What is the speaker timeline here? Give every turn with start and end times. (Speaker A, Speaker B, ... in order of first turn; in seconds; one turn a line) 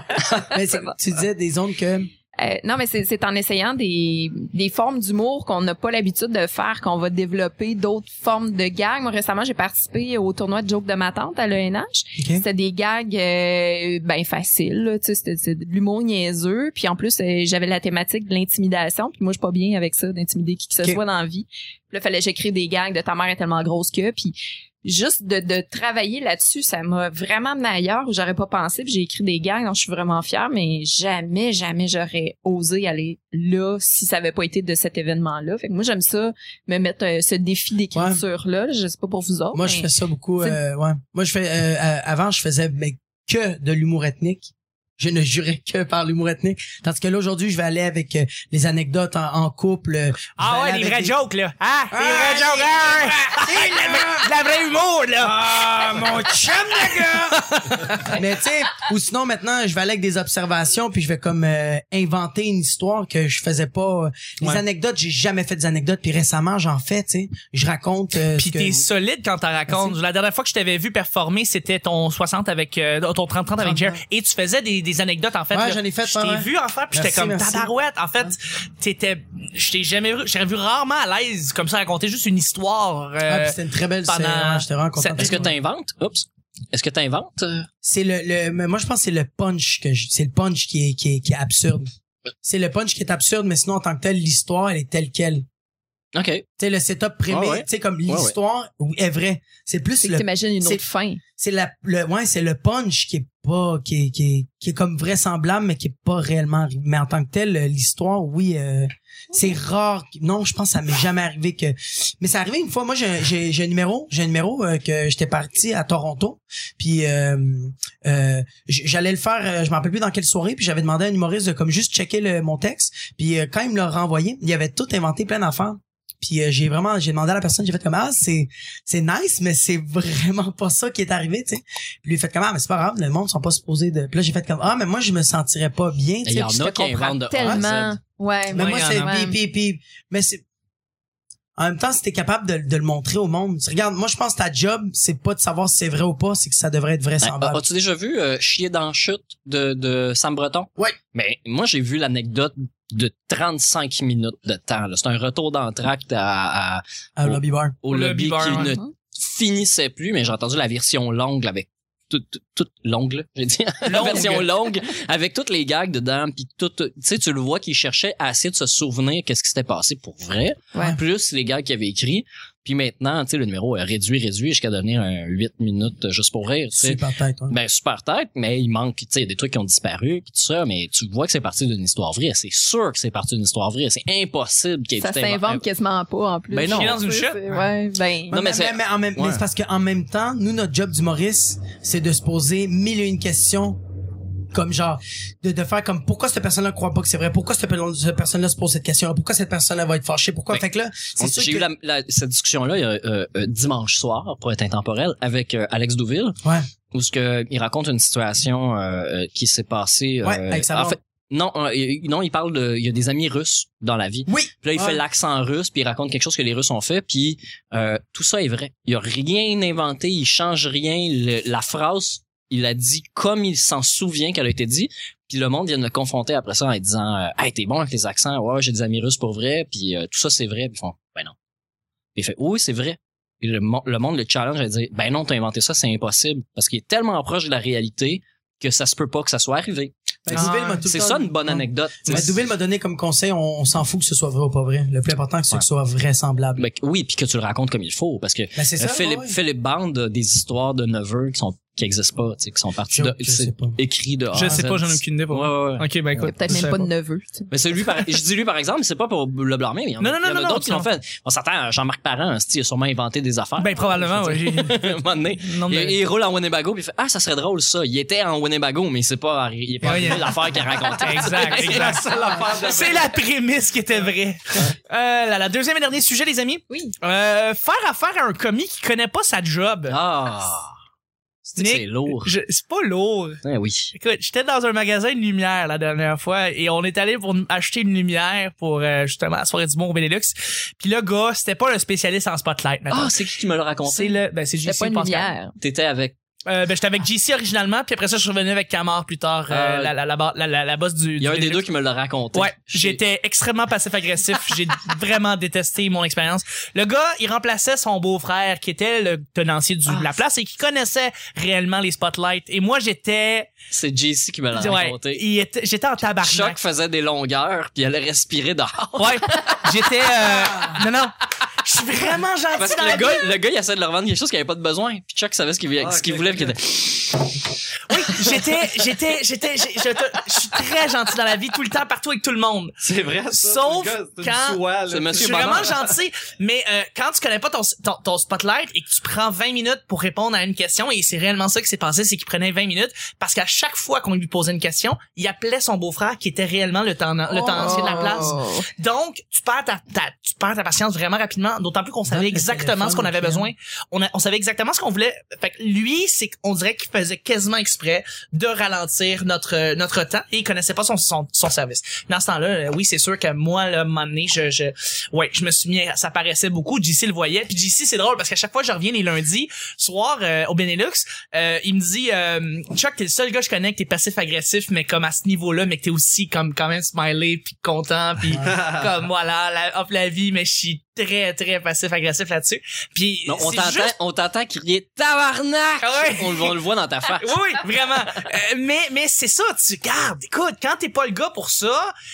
Speaker A: 0.3-2.1
Speaker B: 0.6-0.9
Speaker B: 2.4-39.9
Speaker A: 12.2-12.4
Speaker A: 37.9-38.2
Speaker A: 39.5-51.1
Speaker C: 50.4-55.7
Speaker A: 51.9-54.3
Speaker A: 55.2-68.8
Speaker C: 56.8-58.1
Speaker C: 68.3-85.4
Speaker A: 69.7-70.0
Speaker A: 73.6-74.0
Speaker A: 75.5-78.3
Speaker A: 83.3-85.5
Speaker D: 85.2-87.7
Speaker A: 87.8-91.9
Speaker A: 92.4-95.4
Speaker D: 96.1-96.5
Speaker A: 96.6-100.8
Speaker D: 97.3-98.3
Speaker B: 100.0-101.2
Speaker A: 101.4-136.8
Speaker D: 136.2-138.0
Speaker B: 136.6-139.3
Speaker A: 137.4-137.6
Speaker A: 138.5-140.4
Speaker C: 138.5-139.1
Speaker A: 141.6-147.6
Speaker D: 147.2-185.6
Speaker A: 157.2-157.8
Speaker C: 157.9-158.8
Speaker B: 158.5-158.9
Speaker C: 163.8-164.5
Speaker A: 176.8-177.6
Speaker B: 185.0-188.4
Speaker D: 186.5-187.0
Speaker C: 186.7-187.4
Speaker D: 188.3-189.4
Speaker A: 188.3-193.8
Speaker A: 194.5-201.7
Speaker D: 201.2-206.4
Speaker A: 206.4-206.7
Speaker D: 206.9-231.3
Speaker A: 210.2-211.0
Speaker A: 214.3-215.0
Speaker D: 232.2-242.4
Speaker A: 240.2-246.6
Speaker C: 240.3-240.8
Speaker D: 246.6-256.6
Speaker A: 248.6-249.3
Speaker A: 252.9-253.8
Speaker C: 254.3-256.9
Speaker B: 256.2-257.5
Speaker D: 257.5-272.0
Speaker C: 260.0-260.9
Speaker C: 263.6-265.9
Speaker C: 269.8-279.9
Speaker E: 271.5-273.1
Speaker D: 279.9-280.7
Speaker D: 281.4-282.3
Speaker C: 281.6-283.4
Speaker D: 283.4-283.9
Speaker C: 283.9-293.2
Speaker D: 292.9-294.2
Speaker C: 293.8-295.3
Speaker B: 294.6-295.6
Speaker D: 295.6-296.1
Speaker C: 296.4-301.6
Speaker D: 299.5-299.9
Speaker D: 301.2-303.0
Speaker C: 302.3-313.5
Speaker D: 309.9-310.1
Speaker D: 313.7-315.2
Speaker C: 314.6-316.6
Speaker D: 316.2-319.6
Speaker C: 318.9-323.3
Speaker A: 320.3-320.8
Speaker D: 322.6-327.3
Speaker E: 325.8-326.5
Speaker C: 327.9-332.7
Speaker E: 332.8-335.9
Speaker C: 333.3-383.9
Speaker D: 334.9-335.7
Speaker A: 347.3-348.3
Speaker B: 347.5-348.7
Speaker A: 352.1-353.5
Speaker E: 378.4-378.9
Speaker D: 383.3-387.4
Speaker C: 385.8-386.5
Speaker C: 387.2-391.9